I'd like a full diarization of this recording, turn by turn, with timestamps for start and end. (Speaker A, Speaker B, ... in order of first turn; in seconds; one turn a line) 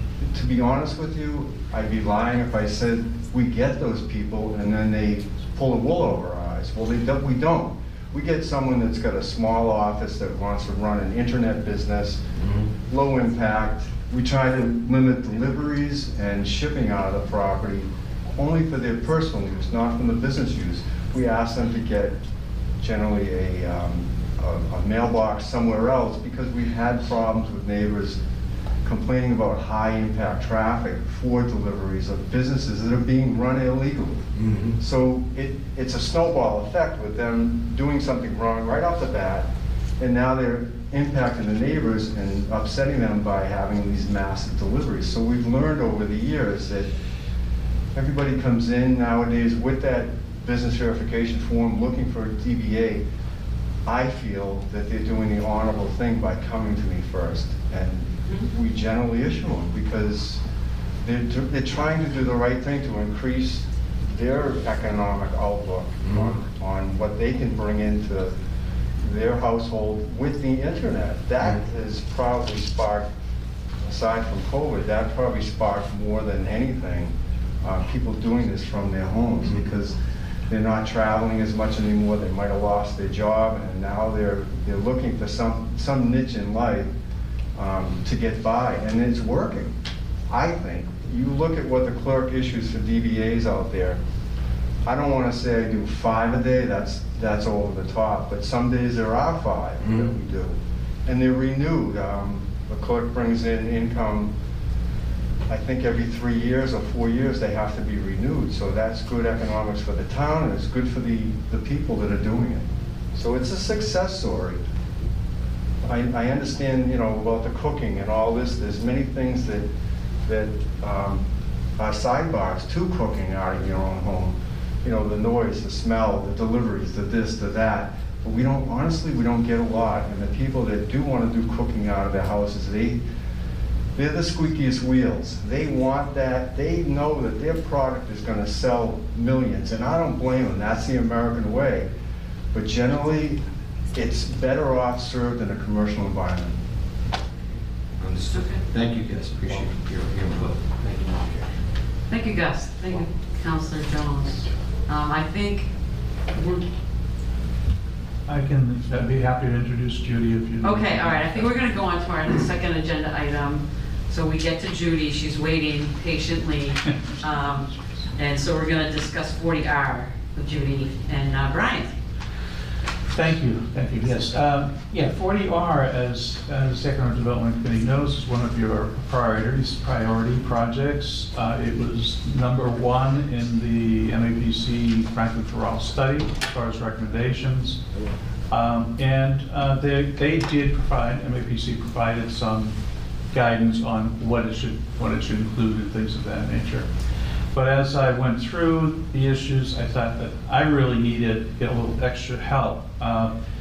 Speaker A: 0.2-12.2
Speaker B: 12.4-12.7
Speaker A: 12.9-22.1
Speaker A: 22.8-28.2
Speaker A: 28.8-34.3
Speaker B: 34.4-34.8
Speaker A: 34.8-39.5
Speaker A: 40.0-46.9
Speaker A: 47.9-53.0
Speaker A: 53.9-60.4
Speaker A: 61.0-68.3
Speaker B: 66.0-66.4
Speaker A: 69.0-73.1
Speaker A: 73.8-79.9
Speaker A: 80.5-86.9
Speaker A: 87.5-89.7
Speaker A: 90.3-94.0
Speaker A: 94.8-104.3
Speaker B: 99.8-100.1
Speaker A: 105.5-114.6
Speaker A: 115.8-119.7
Speaker A: 120.2-121.2
Speaker A: 121.8-133.0
Speaker A: 133.9-141.9
Speaker A: 142.5-143.4
Speaker A: 143.9-146.6
Speaker B: 148.0-151.5
Speaker C: 148.3-148.6
Speaker C: 152.1-155.7
Speaker C: 156.3-156.6
Speaker D: 158.3-161.5
Speaker C: 160.6-171.9
Speaker D: 173.1-187.8
Speaker D: 188.5-192.7
Speaker D: 193.3-196.9
Speaker D: 197.5-203.3